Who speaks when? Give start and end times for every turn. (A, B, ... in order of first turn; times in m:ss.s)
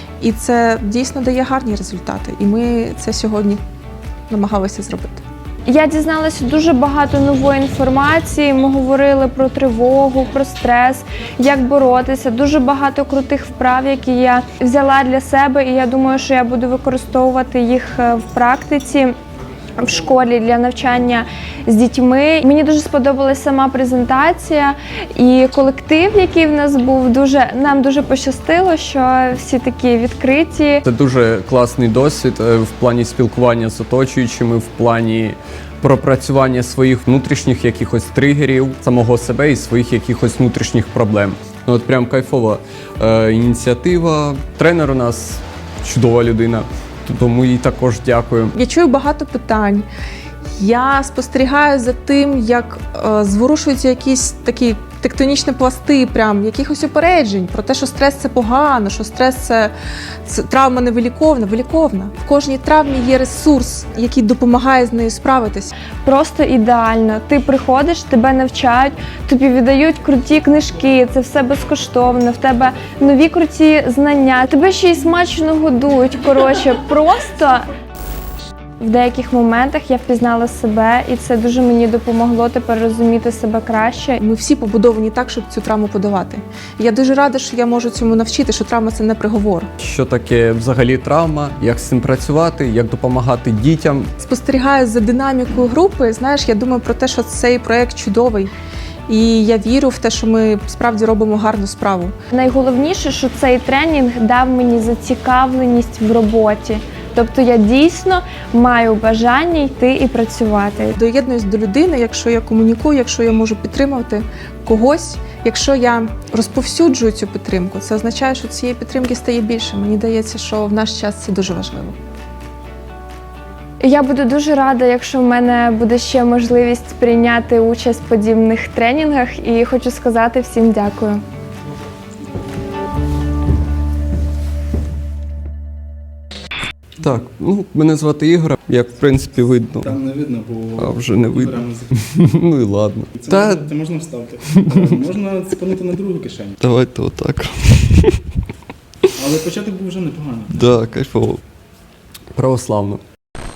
0:00.2-0:03.6 A
0:04.3-0:05.2 A
0:05.7-0:19.2 B
0:19.8-0:30.8 B
0:30.8-0:48.6 C
0:48.6-0:49.9 A
0:50.6-0:59.7 A
1:00.3-1:05.8 A
1:06.0-1:17.7 B
1:18.8-1:24.2 B
1:24.2-1:29.7 A
1:29.8-1:34.1 C
1:34.2-1:38.5 A
1:39.1-1:42.2 A
1:42.3-1:51.0 B
1:51.0-2:02.0 A
2:03.8-2:11.2 B
2:17.0-2:19.9 C
2:19.8-2:21.9 D
2:20.8-2:23.7 C
2:23.2-2:26.7 D
2:26.6-2:28.2 C
2:29.2-2:31.0 D
2:30.7-2:31.4 C
2:32.3-2:33.0 C